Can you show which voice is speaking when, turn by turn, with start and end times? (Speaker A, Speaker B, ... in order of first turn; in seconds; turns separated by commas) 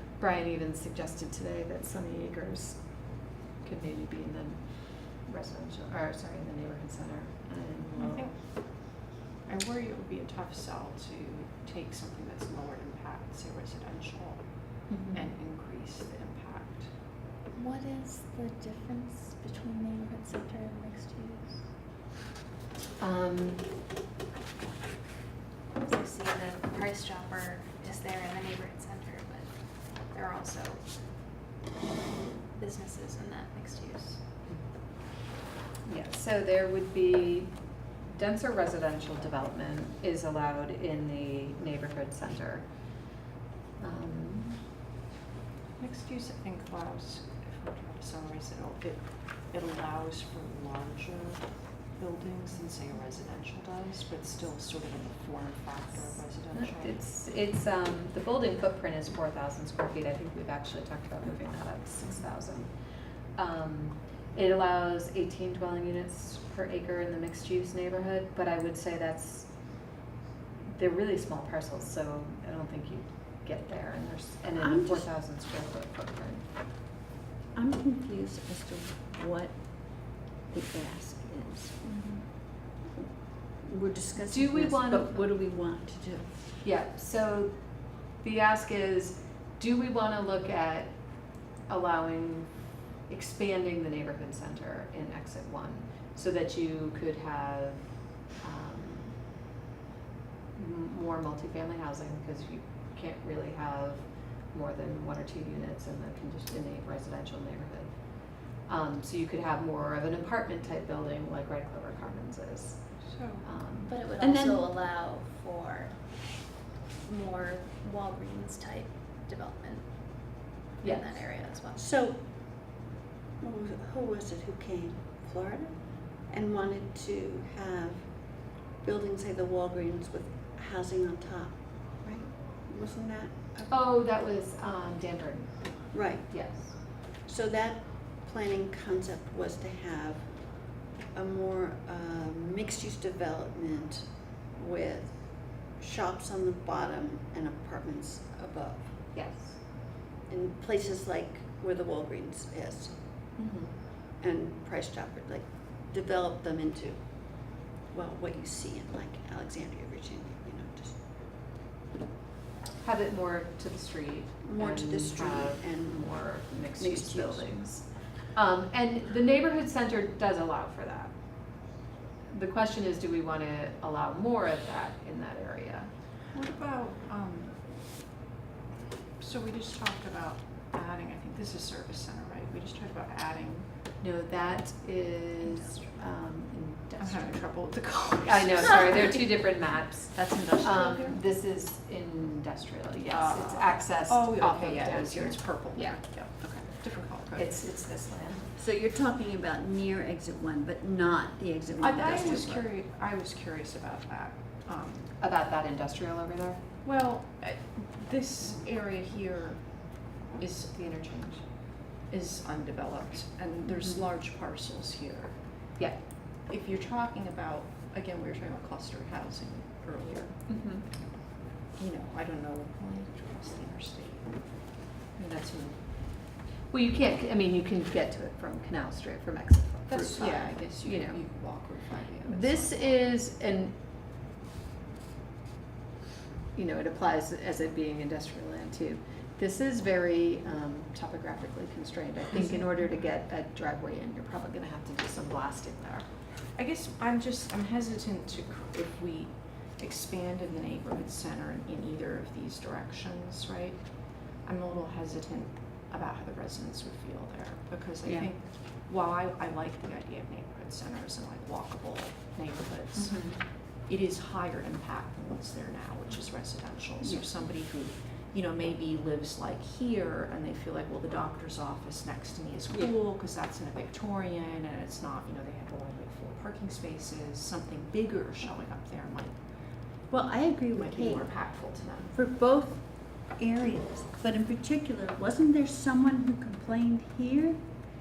Speaker A: 0.2-2.8, Speaker A: 3.6-8.3, Speaker B: 7.9-8.4, Speaker B: 9.4-16.9, Speaker A: 14.9-15.3, Speaker C: 17.5-21.6, Speaker A: 23.0-23.6, Speaker C: 25.8-30.8, Speaker C: 32.5-34.2, Speaker A: 35.9-37.5, Speaker A: 38.1-42.6, Speaker A: 43.8-44.6, Speaker B: 45.8-57.0, Speaker A: 56.5-62.7, Speaker A: 63.4-69.5, Speaker A: 70.7-76.4, Speaker D: 74.6-75.1, Speaker D: 77.5-79.5, Speaker D: 80.5-81.8, Speaker C: 81.8-82.2, Speaker D: 83.6-86.3, Speaker A: 84.2-85.2, Speaker A: 86.6-87.5, Speaker A: 88.2-90.9, Speaker A: 91.7-92.5, Speaker A: 93.1-97.8, Speaker A: 98.4-99.2, Speaker A: 100.5-107.9, Speaker A: 108.6-113.9, Speaker B: 113.0-113.5, Speaker C: 113.8-116.0, Speaker D: 114.2-114.7, Speaker C: 117.0-120.3, Speaker C: 120.8-121.8, Speaker A: 120.8-121.2, Speaker D: 121.8-122.2, Speaker D: 123.4-125.7, Speaker D: 126.3-128.1, Speaker D: 128.8-133.7, Speaker A: 133.7-135.6, Speaker D: 135.9-136.3, Speaker A: 136.3-136.7, Speaker D: 137.2-140.3, Speaker D: 141.1-144.0, Speaker D: 144.6-145.2, Speaker D: 145.8-148.9, Speaker A: 149.1-149.6, Speaker D: 150.3-152.9, Speaker A: 153.4-153.7, Speaker D: 154.2-157.0, Speaker D: 157.9-160.9, Speaker A: 162.8-171.1, Speaker D: 164.4-166.1, Speaker D: 166.8-167.5, Speaker A: 172.3-175.9, Speaker B: 176.3-177.6, Speaker B: 179.2-183.7, Speaker A: 184.0-187.4, Speaker B: 187.0-189.3, Speaker A: 188.2-196.0, Speaker B: 190.1-191.2, Speaker B: 193.1-197.5, Speaker A: 197.3-198.5, Speaker D: 198.6-202.7, Speaker B: 201.8-205.1, Speaker A: 205.2-206.6, Speaker B: 206.8-211.0, Speaker A: 210.7-211.4, Speaker B: 212.1-215.4, Speaker B: 216.5-220.4, Speaker A: 220.5-220.8, Speaker B: 221.8-224.5, Speaker B: 225.2-225.8, Speaker A: 226.7-231.2, Speaker B: 229.9-233.0, Speaker A: 232.2-233.7, Speaker A: 236.5-246.1, Speaker B: 246.6-279.4, Speaker D: 263.0-263.3, Speaker D: 280.1-281.3, Speaker B: 280.7-282.1, Speaker D: 282.1-287.6